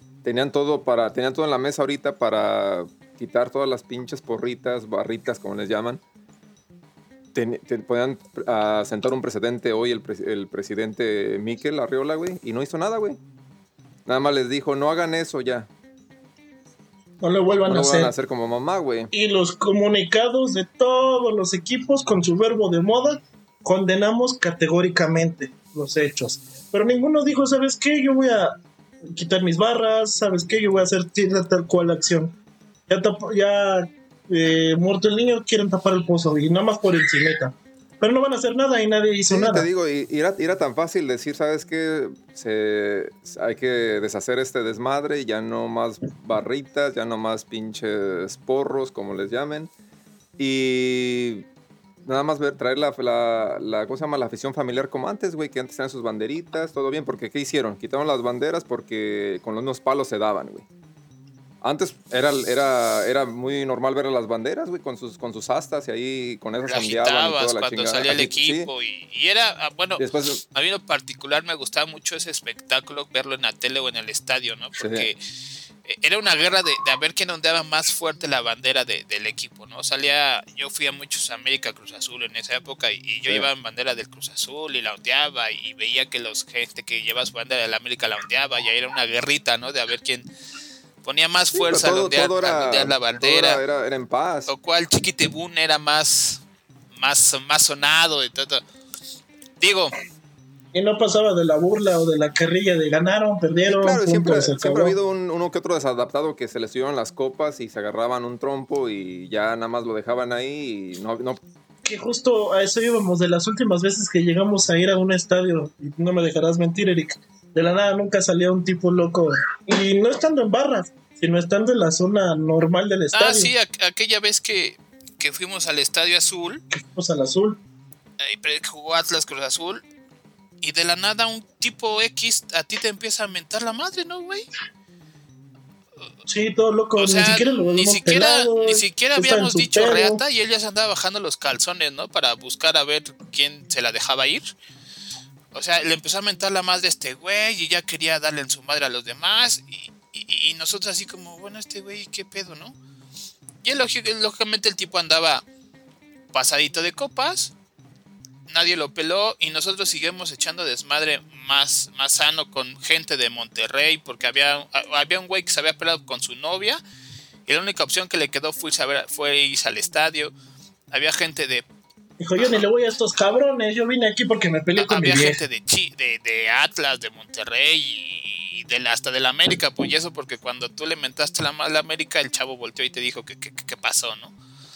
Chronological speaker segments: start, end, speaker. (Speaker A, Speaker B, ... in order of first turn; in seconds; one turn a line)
Speaker A: 0.2-6.0
Speaker A: 7.3-13.2
Speaker A: 14.1-15.7
Speaker B: 17.2-18.1
Speaker A: 17.6-19.1
Speaker B: 19.1-32.4
Speaker B: 32.9-39.7
Speaker A: 39.3-49.7
Speaker A: 50.4-51.5
Speaker A: 52.0-60.7
Speaker A: 61.6-68.7
Speaker C: 66.7-75.2
Speaker A: 70.0-70.4
Speaker A: 74.8-75.1
Speaker C: 75.8-90.3
Speaker C: 91.0-93.6
Speaker A: 91.5-94.5
Speaker C: 94.5-98.6
Speaker C: 99.6-99.9
Speaker B: 100.7-105.0
Speaker A: 103.7-111.4
Speaker B: 111.8-123.5
Speaker C: 123.1-126.6
Speaker B: 126.7-127.6
Speaker C: 128.2-129.8
Speaker C: 130.6-134.5
Speaker B: 136.3-140.2
Speaker C: 137.0-144.5
Speaker C: 145.5-152.8
Speaker C: 153.6-155.4
Speaker C: 156.3-157.5
Speaker C: 158.5-166.8
Speaker C: 167.5-170.3
Speaker C: 170.9-171.7
Speaker B: 172.2-175.4
Speaker C: 174.8-184.3